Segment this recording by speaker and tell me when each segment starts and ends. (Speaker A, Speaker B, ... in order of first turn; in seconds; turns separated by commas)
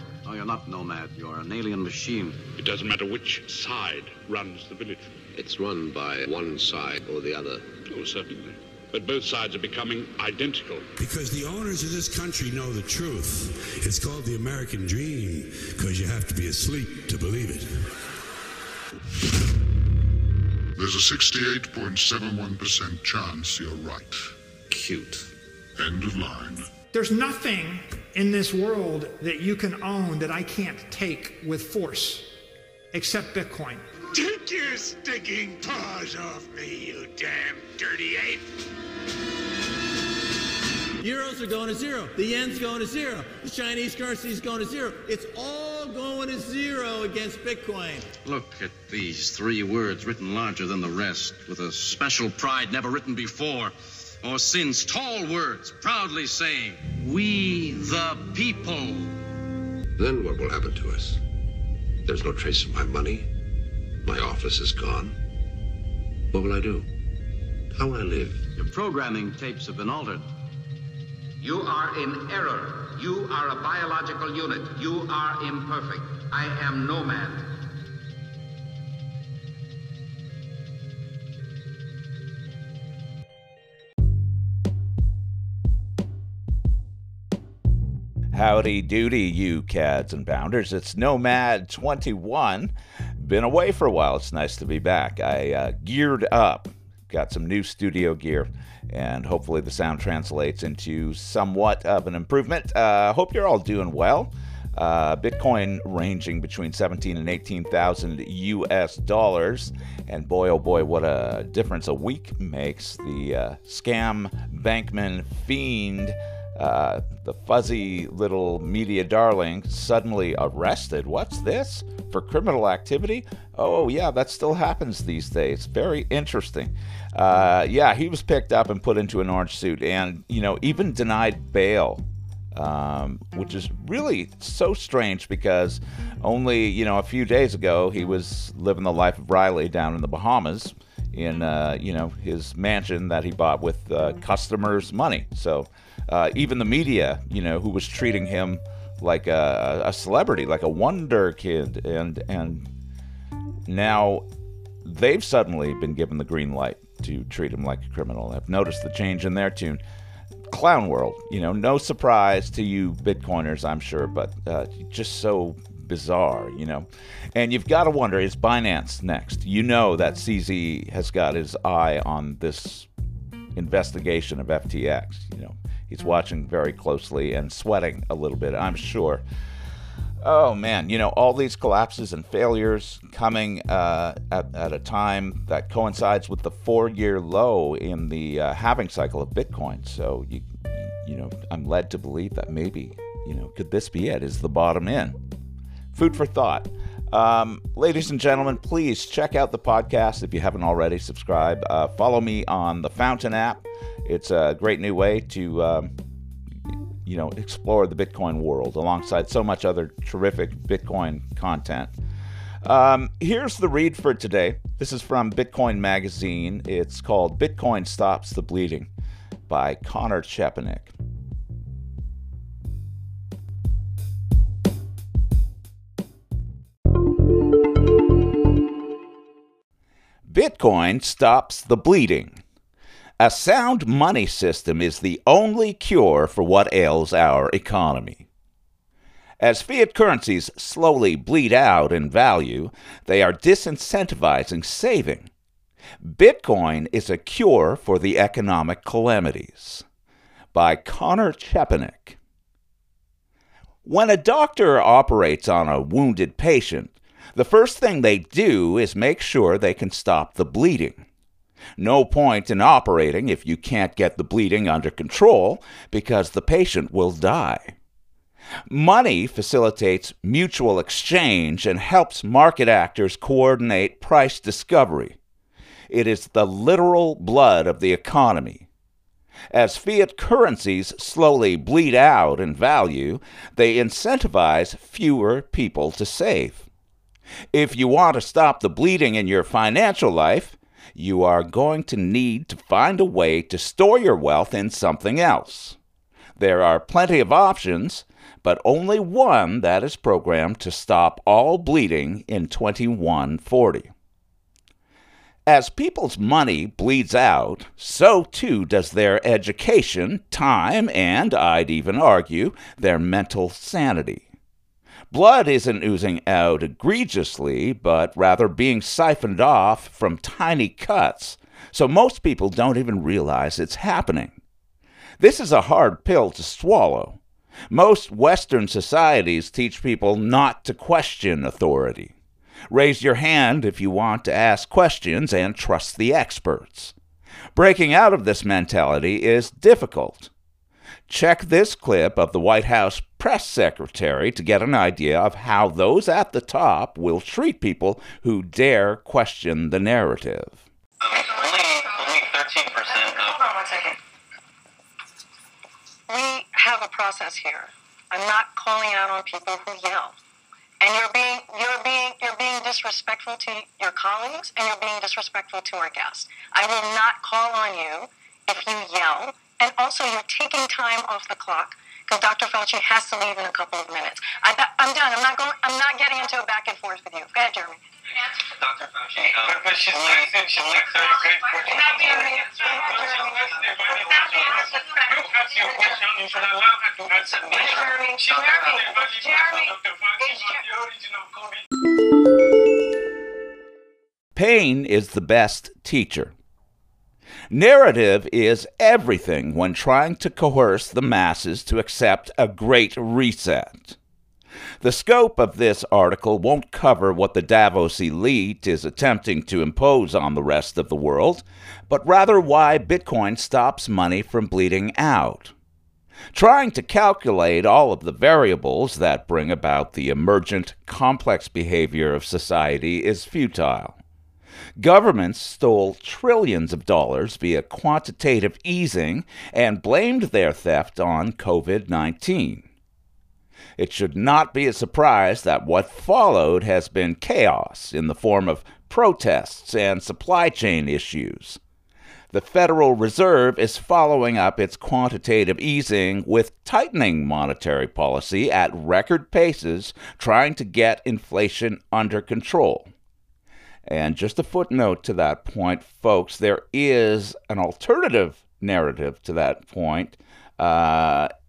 Speaker A: 0.2-2.4, Speaker B: 2.6-5.1, Speaker C: 5.3-7.8, Speaker B: 7.8-10.9, Speaker D: 11.0-17.9, Speaker E: 20.8-24.3, Speaker C: 24.7-25.2, Speaker E: 25.8-26.6, Speaker F: 26.9-32.4, Speaker F: 32.9-33.9, Speaker G: 34.1-38.5, Speaker H: 41.0-48.1, Speaker A: 48.2-59.2, Speaker C: 60.0-61.2, Speaker C: 62.0-63.3, Speaker C: 64.0-65.2, Speaker C: 66.3-66.9, Speaker C: 67.7-68.4, Speaker A: 68.6-70.3, Speaker I: 71.4-77.5, Speaker J: 88.3-132.0, Speaker J: 132.5-152.7, Speaker J: 153.7-154.2, Speaker J: 154.8-159.8, Speaker J: 160.5-172.9, Speaker J: 173.5-179.2, Speaker J: 180.2-195.2, Speaker J: 195.9-205.9, Speaker J: 207.0-211.9, Speaker J: 212.6-218.9, Speaker J: 219.5-220.9, Speaker J: 230.3-232.4, Speaker J: 233.2-238.3, Speaker J: 239.4-245.3, Speaker J: 246.0-249.8, Speaker J: 250.5-252.2, Speaker J: 253.8-261.0, Speaker J: 261.8-267.7, Speaker J: 268.7-275.2, Speaker J: 275.9-278.7, Speaker J: 279.5-286.7, Speaker J: 287.5-295.8, Speaker J: 296.4-303.9, Speaker J: 305.5-314.3, Speaker J: 315.1-324.4, Speaker J: 325.2-327.2, Speaker J: 327.7-332.1, Speaker J: 332.7-336.9, Speaker J: 337.5-340.3, Speaker J: 341.1-350.6, Speaker K: 351.0-353.4, Speaker L: 351.1-352.2, Speaker L: 352.9-354.0, Speaker L: 356.1-360.2, Speaker L: 360.8-377.8, Speaker K: 378.3-384.2, Speaker L: 379.4-380.3, Speaker L: 380.9-386.1, Speaker K: 385.6-387.8, Speaker L: 387.3-390.6, Speaker J: 394.3-396.3, Speaker J: 397.5-403.9, Speaker J: 404.8-415.5, Speaker J: 416.3-424.0, Speaker J: 424.8-432.7, Speaker J: 433.8-441.6, Speaker J: 442.3-452.9, Speaker J: 453.9-461.3